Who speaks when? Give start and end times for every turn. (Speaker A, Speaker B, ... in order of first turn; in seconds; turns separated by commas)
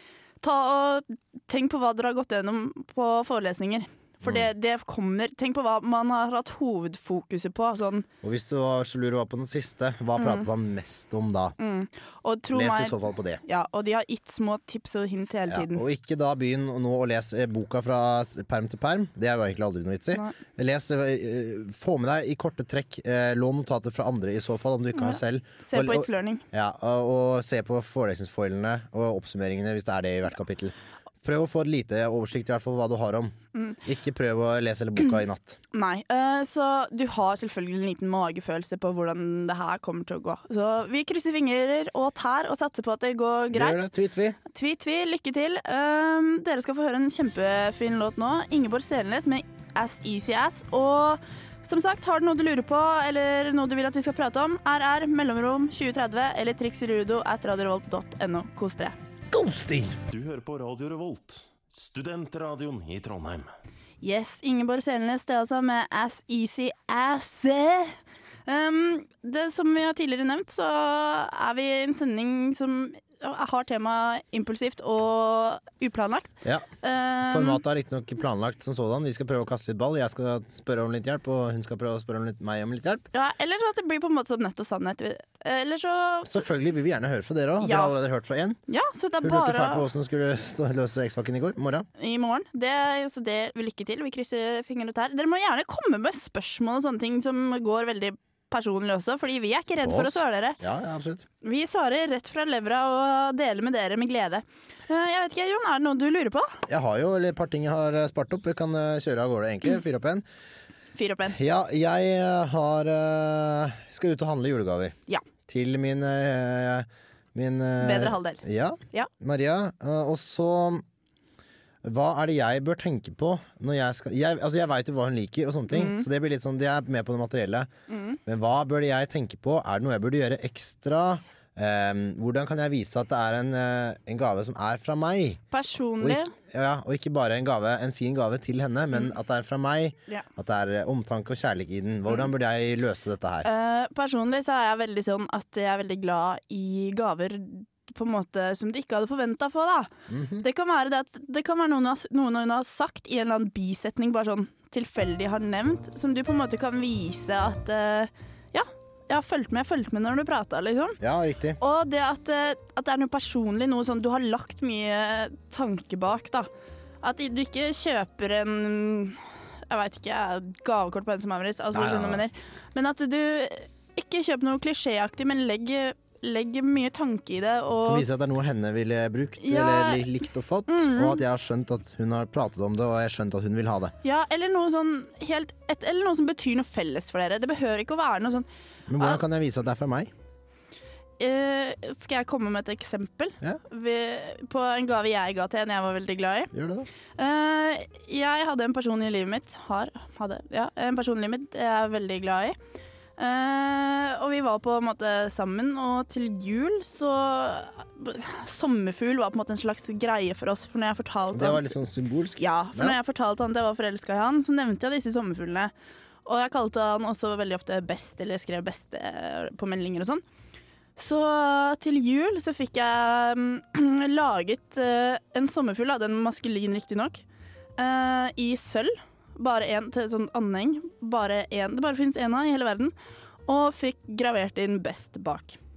Speaker A: 0.4-8.1, Speaker B: 8.2-11.6, Speaker A: 10.2-10.5, Speaker A: 11.6-15.8, Speaker B: 12.5-13.4, Speaker B: 15.5-35.6, Speaker A: 24.9-26.4, Speaker A: 35.7-43.8, Speaker B: 43.5-44.4, Speaker A: 44.5-59.0, Speaker B: 59.3-60.0, Speaker C: 60.1-63.5, Speaker A: 64.0-77.6, Speaker B: 77.3-83.0, Speaker A: 83.1-86.4, Speaker B: 86.2-88.6, Speaker A: 87.6-87.9, Speaker A: 88.7-89.8, Speaker B: 89.2-91.9, Speaker A: 92.0-100.6, Speaker B: 99.8-101.2, Speaker A: 101.4-106.6, Speaker B: 106.7-110.2, Speaker A: 110.9-111.3, Speaker B: 111.3-114.9, Speaker B: 115.5-120.8, Speaker A: 117.8-119.1, Speaker B: 121.8-127.7, Speaker A: 125.7-126.1, Speaker A: 127.9-128.2, Speaker B: 128.2-135.4, Speaker A: 135.5-136.3, Speaker B: 136.0-143.5, Speaker A: 143.4-149.9, Speaker B: 150.1-150.4, Speaker A: 150.4-161.0, Speaker B: 161.0-161.6, Speaker A: 161.6-166.5, Speaker A: 167.0-178.0, Speaker B: 171.7-172.2, Speaker B: 177.8-183.9, Speaker A: 179.4-180.1, Speaker A: 180.7-181.2, Speaker A: 184.0-188.5, Speaker B: 188.9-190.1, Speaker A: 191.2-196.5, Speaker B: 196.5-196.9, Speaker A: 197.2-202.6, Speaker A: 203.2-211.7, Speaker B: 211.3-213.0, Speaker A: 212.4-215.7, Speaker A: 216.2-220.2, Speaker A: 221.0-227.2, Speaker A: 227.8-232.9, Speaker A: 233.5-235.6